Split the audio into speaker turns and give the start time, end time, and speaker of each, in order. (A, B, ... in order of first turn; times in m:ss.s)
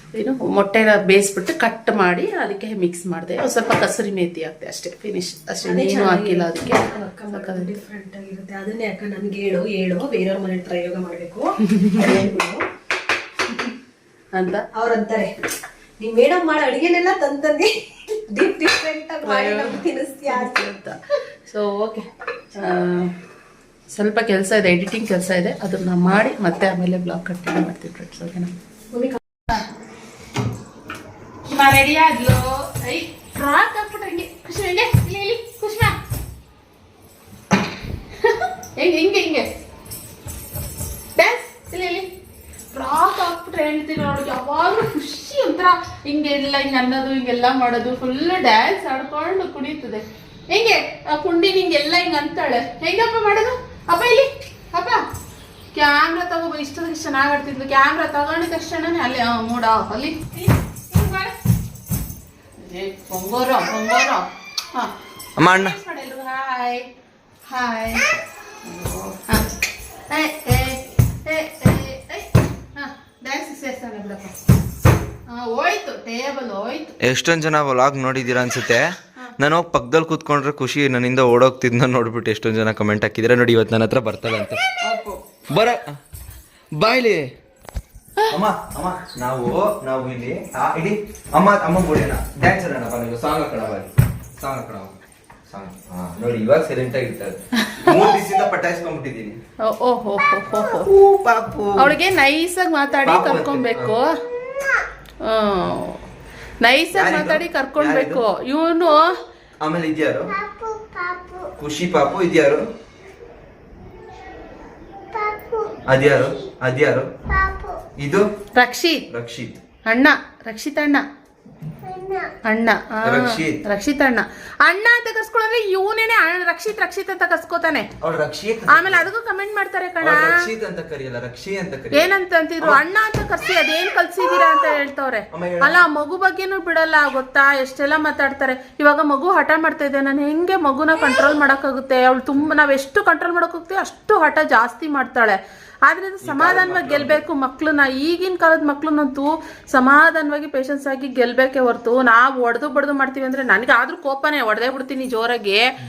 0:00.1-0:07.7 A
0:05.6-0:12.6 B
0:11.7-0:12.3 A
0:14.3-0:14.6 A
0:14.7-0:15.3 B
0:16.0-0:17.7 B
0:18.3-0:20.6 B
0:19.2-0:23.1 A
0:23.9-0:28.5 A
0:28.9-0:29.2 B
0:31.4-0:36.0 A
0:38.2-0:39.5 A
0:41.2-0:42.1 A
0:42.7-0:55.0 A
0:55.7-1:01.3 A
1:02.6-1:06.9 A
1:05.4-1:05.8 C
1:07.5-1:08.0 A
1:08.6-1:09.5 A
1:10.1-1:14.3 A
1:15.3-1:16.9 A
1:17.0-1:25.9 C
1:26.7-1:27.3 C
1:28.3-1:35.0 C
1:35.5-1:39.4 C
1:37.6-1:38.0 A
1:39.6-1:40.9 A
1:40.8-1:42.0 C
1:41.8-1:44.1 A
1:43.0-1:43.9 C
1:45.2-1:46.0 A
1:46.6-1:49.2 A
1:46.9-1:48.2 C
1:49.6-1:50.4 C
1:51.6-1:52.6 C
1:55.9-1:57.1 C
1:58.0-1:58.2 C
1:58.6-1:59.0 A
1:59.1-1:59.6 C
1:59.9-2:01.0 A
2:02.3-2:07.9 A
2:03.0-2:03.6 C
2:08.0-2:09.0 C
2:08.7-2:10.5 A
2:10.0-2:12.8 C
2:11.9-2:35.6 A
2:15.3-2:15.8 C
2:26.2-2:27.2 C